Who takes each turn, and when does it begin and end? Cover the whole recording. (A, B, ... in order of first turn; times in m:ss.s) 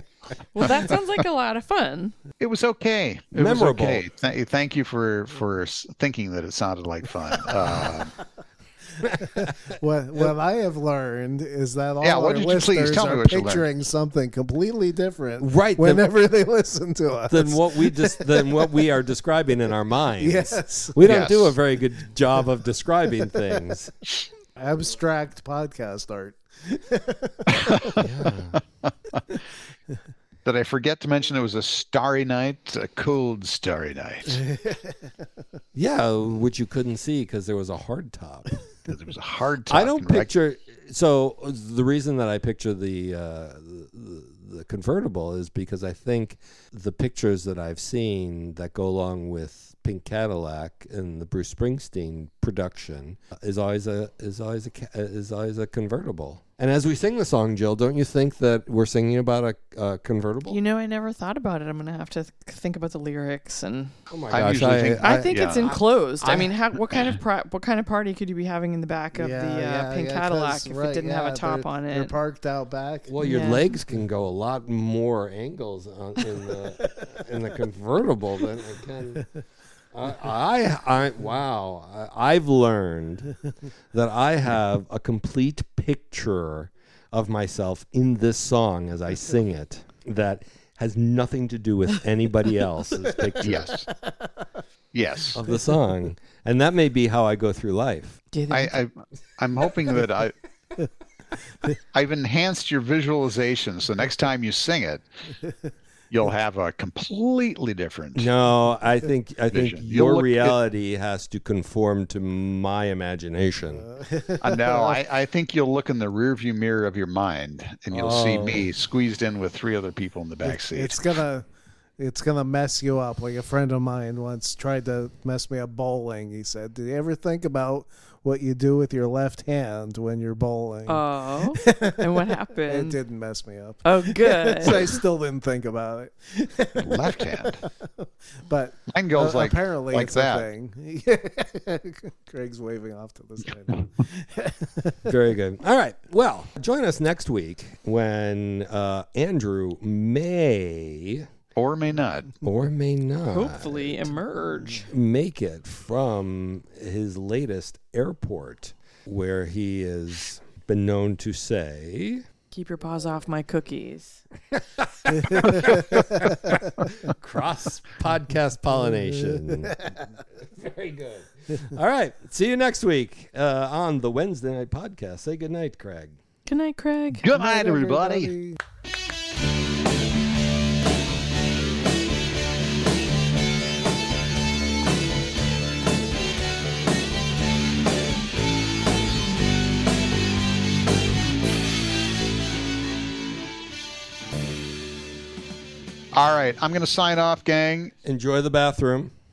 0:00.5-0:02.1 A
0:02.4-0:08.1 B
0:03.3-0:04.0 C
0:09.0-0:10.2 C
0:09.0-0:18.6 D
0:12.0-0:13.7 B
0:15.4-0:16.1 C
0:17.3-0:23.9 C
0:20.2-0:21.2 D
0:21.0-0:21.5 B
0:24.6-0:28.0 D
0:27.5-0:28.0 B
0:28.0-0:28.6 C
0:28.9-0:29.2 B
0:30.4-0:34.4 B
0:34.4-0:35.1 D
0:35.7-0:38.5 C
0:38.9-0:40.3 B
0:39.7-1:00.6 C
1:00.5-1:03.9 A
1:04.1-1:06.5 C
1:04.3-1:05.7 B
1:05.0-1:12.1 A
1:09.1-1:13.1 D
1:13.1-1:19.2 C
1:13.2-1:13.7 A
1:19.9-1:23.3 C
1:23.9-1:33.7 C
1:33.2-1:34.3 D
1:33.4-1:33.8 B
1:34.9-1:35.4 B
1:35.3-1:38.2 C
1:38.3-1:38.8 A
1:38.5-1:40.3 B
1:41.9-1:45.0 B
1:46.1-1:48.3 B
1:48.1-1:53.9 C
1:49.5-1:50.6 B
1:53.9-1:55.0 D
1:54.4-2:01.2 B
1:57.9-1:58.7 C
2:00.4-2:01.4 D
2:02.0-2:25.0 D
2:10.8-2:13.0 A
2:13.8-2:15.0 A
2:16.8-2:17.6 B
2:18.9-2:20.5 B
2:25.1-2:31.3 C
2:31.5-2:32.3 B
2:32.4-2:34.1 C
2:33.3-2:34.9 A
2:34.7-2:42.2 C
2:42.5-2:44.2 A
2:44.5-2:56.2 C
2:46.3-2:46.5 D
2:49.5-2:49.7 D
2:56.5-2:57.3 A
2:57.2-2:58.3 B
2:57.3-2:58.6 D
3:16.1-3:17.9 B
3:18.0-3:19.1 C